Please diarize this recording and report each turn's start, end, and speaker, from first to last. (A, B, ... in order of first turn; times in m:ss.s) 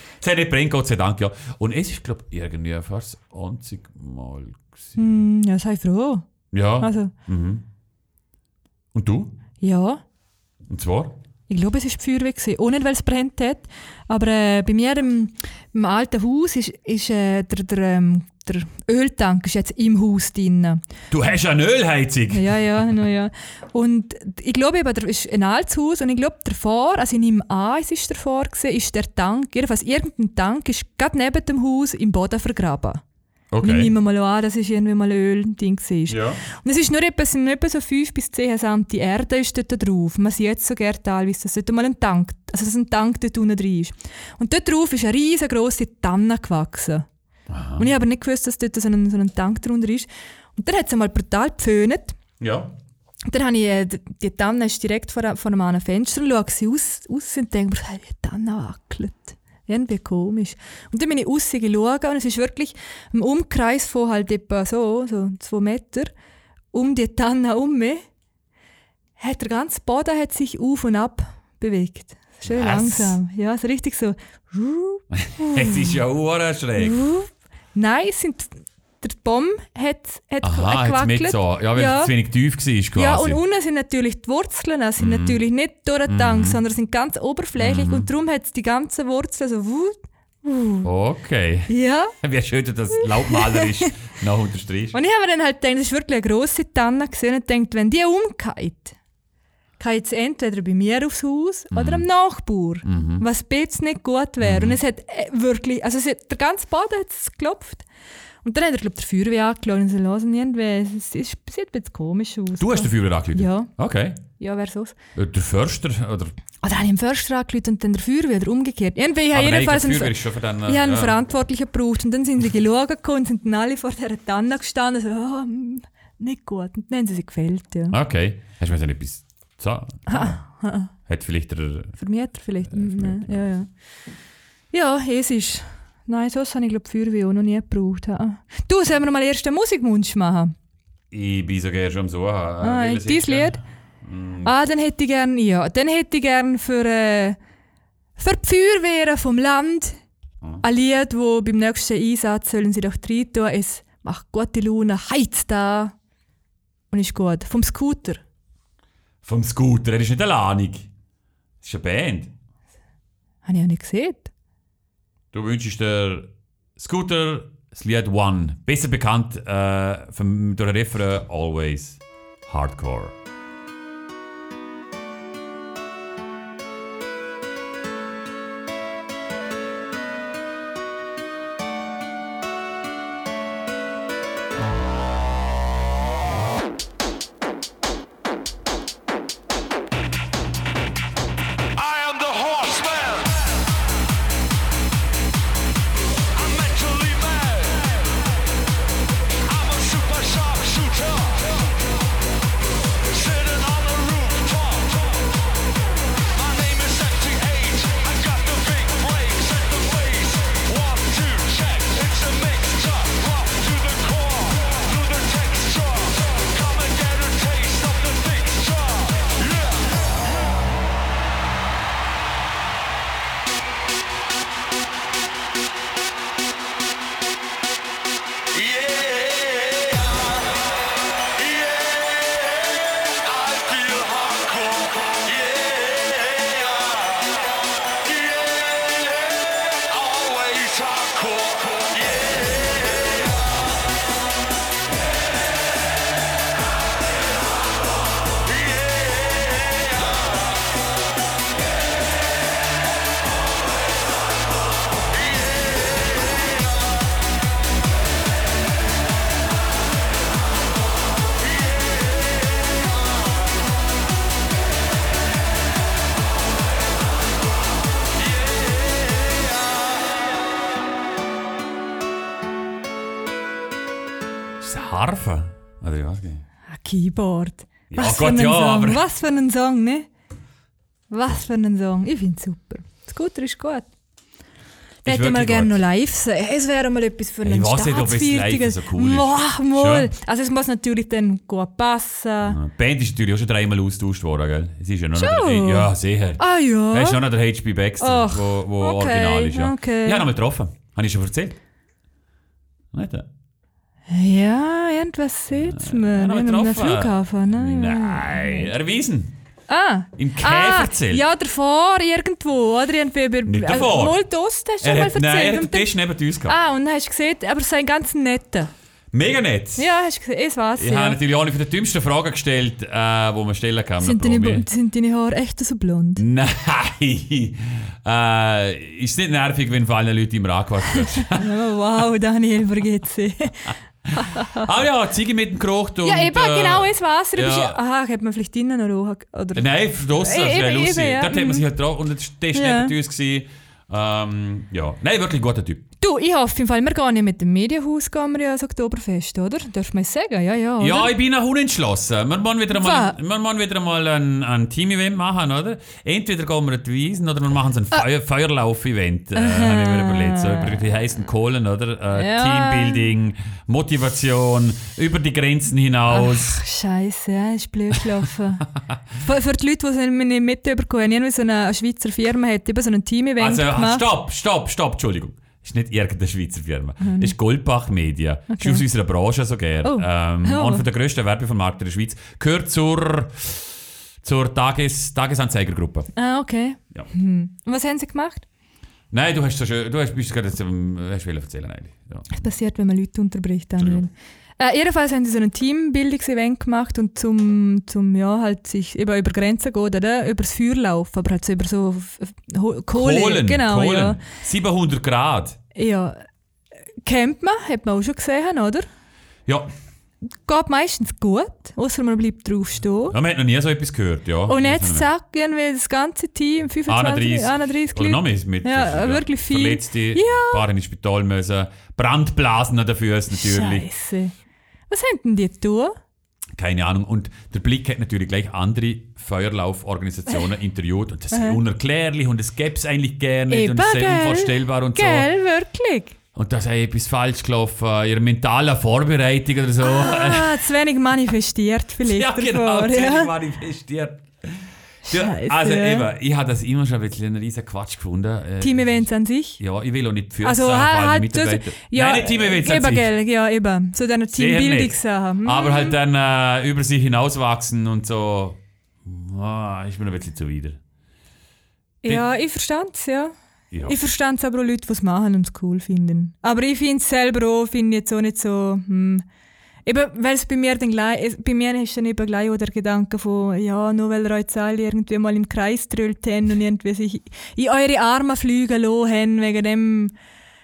0:00.2-0:05.0 A
0:05.0-0:06.2 B
0:06.5-0:07.6 A
0:06.8-0:07.1 B
0:08.9-0:09.3 A
0:09.6-0:10.0 B
0:10.7-0:11.2 A
0:11.5-0:20.8 B
0:21.1-0:22.6 A
0:22.3-0:33.0 B
0:33.5-0:33.9 A
0:33.6-0:47.1 B
0:36.1-0:36.4 A
0:47.5-0:47.9 A
0:47.8-0:52.2 B
0:52.4-0:52.7 A
0:53.3-1:06.1 B
1:06.7-1:08.0 B
1:09.2-1:16.0 B
1:12.4-1:13.2 A
1:15.1-1:17.0 A
1:16.8-1:22.1 B
1:20.4-1:23.4 A
1:22.9-1:30.9 B
1:25.0-1:25.4 A
1:26.1-1:26.6 A
1:27.6-1:28.1 A
1:30.8-1:35.0 A
1:31.7-1:32.1 B
1:33.0-1:33.9 B
1:34.9-1:39.0 B
1:39.8-1:47.8 B
1:41.7-1:42.0 A
1:42.8-1:43.2 A
1:44.4-1:44.8 A
1:48.4-1:53.7 B
1:52.6-1:54.2 A
1:54.4-1:55.0 B
1:55.1-1:56.3 A
1:56.6-2:08.0 B
1:59.3-2:01.2 A
2:07.9-2:10.4 A
2:10.1-2:10.9 B
2:11.1-2:11.9 A
2:12.0-2:13.7 B
2:12.7-2:13.5 A
2:14.7-2:20.5 B
2:21.1-2:24.5 A
2:22.6-2:23.6 B
2:24.4-2:27.4 B
2:28.2-2:30.0 B
2:30.6-2:35.9 B
2:36.9-2:38.2 B
2:39.2-2:40.9 A
2:41.6-2:42.3 A
2:43.4-2:44.3 B
2:45.3-2:53.1 A
3:11.9-3:13.2 C
3:16.4-3:17.7 C
3:19.6-3:21.3 C
3:23.1-3:24.8 C
3:26.4-3:39.1 C
3:53.5-3:54.8 C
4:00.1-4:01.6 C
4:34.6-4:36.4 A
4:36.7-4:40.1 B
4:37.9-4:39.0 A
4:41.1-4:43.9 B
4:45.0-4:45.8 A
4:45.0-4:52.6 B
4:47.4-4:50.1 A
4:52.4-5:01.6 A
4:55.2-4:57.2 B
4:58.0-5:00.2 B
5:02.9-5:03.3 A
5:04.1-5:08.7 B
5:05.5-5:09.3 A
5:09.7-5:15.9 B
5:10.2-5:11.2 A
5:13.4-5:14.2 A
5:14.8-5:16.6 A
5:16.4-5:18.7 B
5:19.1-5:19.8 A
5:19.8-5:21.2 B
5:20.8-5:24.6 A
5:24.0-5:26.2 B
5:26.2-5:31.5 A
5:31.0-5:34.7 B
5:34.2-5:37.8 A
5:36.0-5:41.6 B
5:39.5-5:45.8 A
5:42.5-5:42.9 B
5:46.0-5:51.1 B
5:50.8-6:06.6 A
5:52.7-5:53.2 B
5:59.3-6:00.8 B
6:02.1-6:03.1 B
6:06.1-6:08.7 B
6:09.2-6:14.1 B
6:13.4-6:23.7 A
6:17.0-6:17.3 B
6:18.5-6:18.8 B
6:19.8-6:20.8 B
6:24.2-6:26.1 A
6:26.1-6:28.4 B
6:29.1-6:32.3 A
6:32.3-6:44.2 B
6:42.9-6:45.6 A
6:45.7-6:46.2 B
6:47.0-6:48.9 B
6:50.4-6:53.2 B
6:53.1-6:55.1 A
6:54.5-7:00.6 B
6:56.9-7:03.9 A
7:03.3-7:04.3 B
7:04.9-7:06.0 B
7:06.6-7:15.3 A
7:11.3-7:11.6 B
7:13.5-7:16.2 B
7:16.3-7:20.6 A
7:19.8-7:23.3 B
7:22.0-7:29.0 A
7:25.0-7:26.1 B
7:28.6-7:29.6 B
7:29.6-7:33.1 A
7:30.4-7:36.0 B
7:34.4-7:40.8 A
7:42.0-7:43.3 B
7:43.7-7:44.0 A
7:43.8-7:49.2 B
7:49.8-8:00.1 B